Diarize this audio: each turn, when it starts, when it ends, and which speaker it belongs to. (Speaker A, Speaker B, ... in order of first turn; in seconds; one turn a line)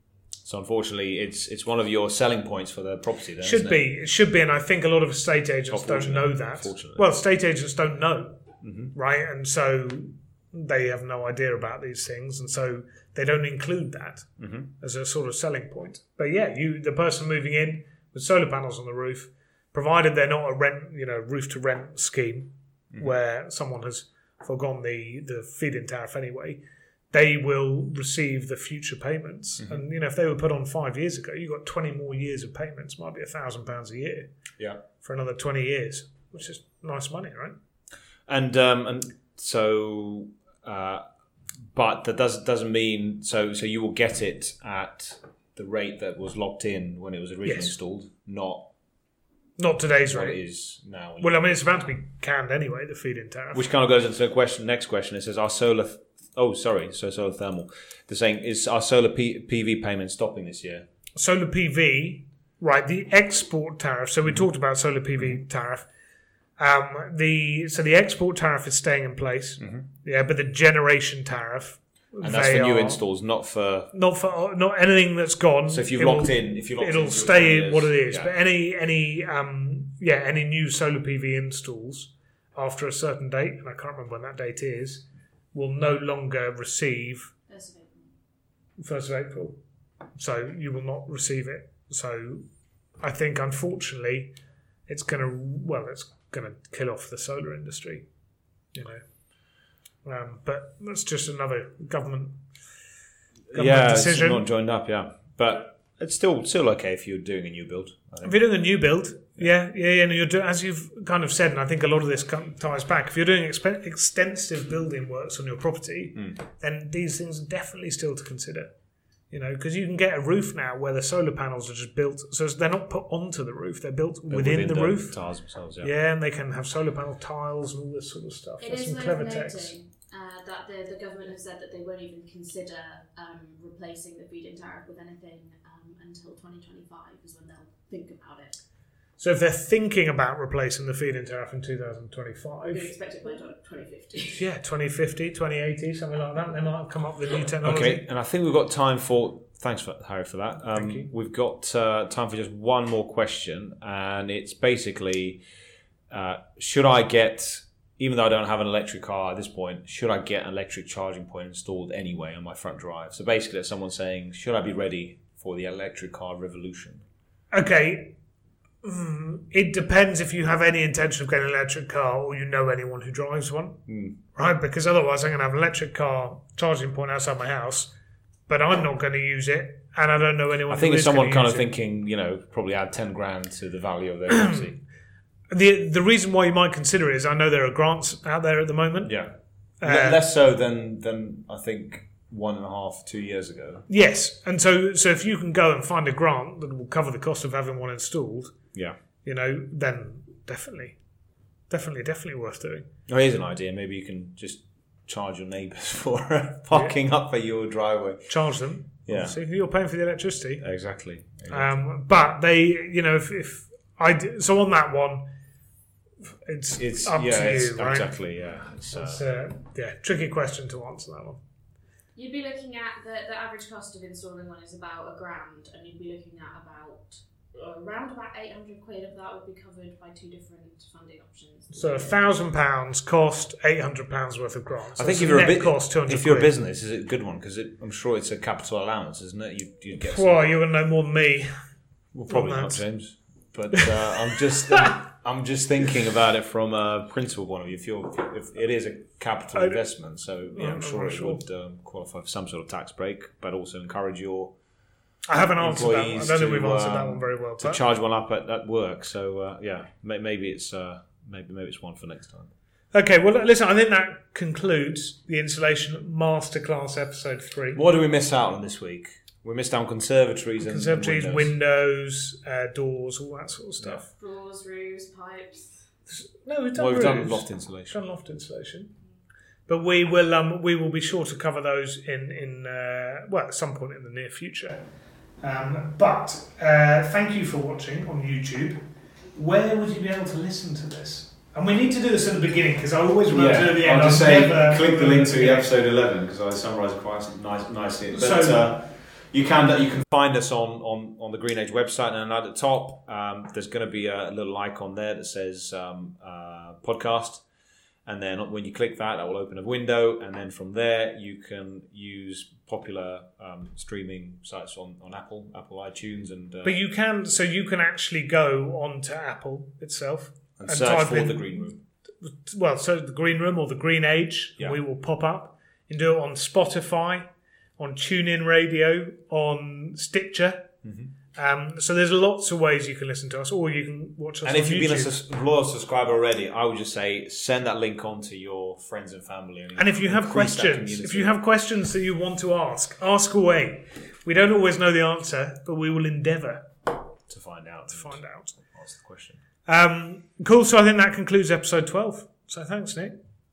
Speaker A: 0.5-3.9
Speaker B: 3.4-34.3
Speaker A: 5.7-7.1
Speaker A: 8.6-8.9
Speaker A: 14.4-14.7
Speaker B: 35.0-37.6
Speaker A: 38.3-41.0
Speaker A: 41.7-48.7
Speaker B: 47.5-47.8
Speaker B: 49.6-50.4
Speaker A: 50.1-51.5
Speaker B: 51.2-53.6
Speaker A: 53.5-60.9
Speaker B: 61.2-65.9
Speaker B: 66.6-73.0
Speaker A: 72.2-73.9
Speaker B: 73.9-87.3
Speaker A: 75.7-78.3
Speaker C: 87.5-88.1
Speaker B: 88.8-89.6
Speaker B: 90.2-92.5
Speaker B: 93.0-94.3
Speaker B: 94.9-98.0
Speaker B: 98.7-99.0
Speaker B: 100.0-102.4
Speaker A: 103.5-108.4
Speaker B: 103.5-104.5
Speaker B: 108.2-118.7
Speaker B: 119.3-125.2
Speaker A: 124.3-125.9
Speaker B: 125.8-129.8
Speaker C: 128.6-138.6
Speaker B: 139.2-142.9
Speaker C: 142.7-144.4
Speaker B: 144.3-148.0
Speaker A: 147.6-155.4
Speaker B: 150.7-151.1
Speaker A: 156.1-167.0
Speaker B: 167.5-168.2
Speaker B: 168.8-173.8
Speaker A: 173.9-174.2
Speaker B: 174.3-177.9
Speaker B: 178.5-181.7
Speaker A: 180.7-184.8
Speaker B: 185.5-189.2
Speaker A: 189.0-193.9
Speaker B: 189.8-190.2
Speaker B: 193.9-198.6
Speaker B: 199.2-201.0
Speaker B: 201.7-202.9
Speaker A: 203.1-208.3
Speaker B: 208.3-210.7
Speaker A: 209.1-209.4
Speaker A: 210.6-211.7
Speaker B: 211.5-215.3
Speaker B: 216.4-218.1
Speaker A: 216.8-219.2
Speaker B: 218.9-221.4
Speaker C: 222.2-232.2
Speaker B: 231.7-236.5
Speaker A: 235.0-240.4
Speaker B: 239.9-241.5
Speaker A: 242.1-254.5
Speaker B: 242.3-242.8
Speaker B: 243.7-245.0
Speaker B: 249.5-249.8
Speaker B: 250.5-251.4
Speaker B: 255.3-257.8
Speaker A: 255.6-262.5
Speaker B: 262.9-267.8
Speaker A: 267.7-271.5
Speaker B: 270.6-274.1
Speaker C: 274.1-275.8
Speaker B: 276.1-278.9
Speaker A: 276.8-278.0
Speaker B: 279.7-284.8
Speaker B: 285.4-288.8
Speaker B: 289.3-295.7
Speaker A: 293.3-307.4
Speaker B: 298.1-298.7
Speaker A: 308.1-316.8
Speaker B: 316.6-321.7
Speaker A: 320.6-321.8
Speaker B: 322.2-330.8
Speaker A: 330.8-331.1
Speaker B: 331.3-335.1
Speaker A: 334.4-341.3
Speaker B: 339.8-346.9
Speaker A: 347.3-349.4
Speaker B: 347.9-348.6
Speaker B: 349.7-353.2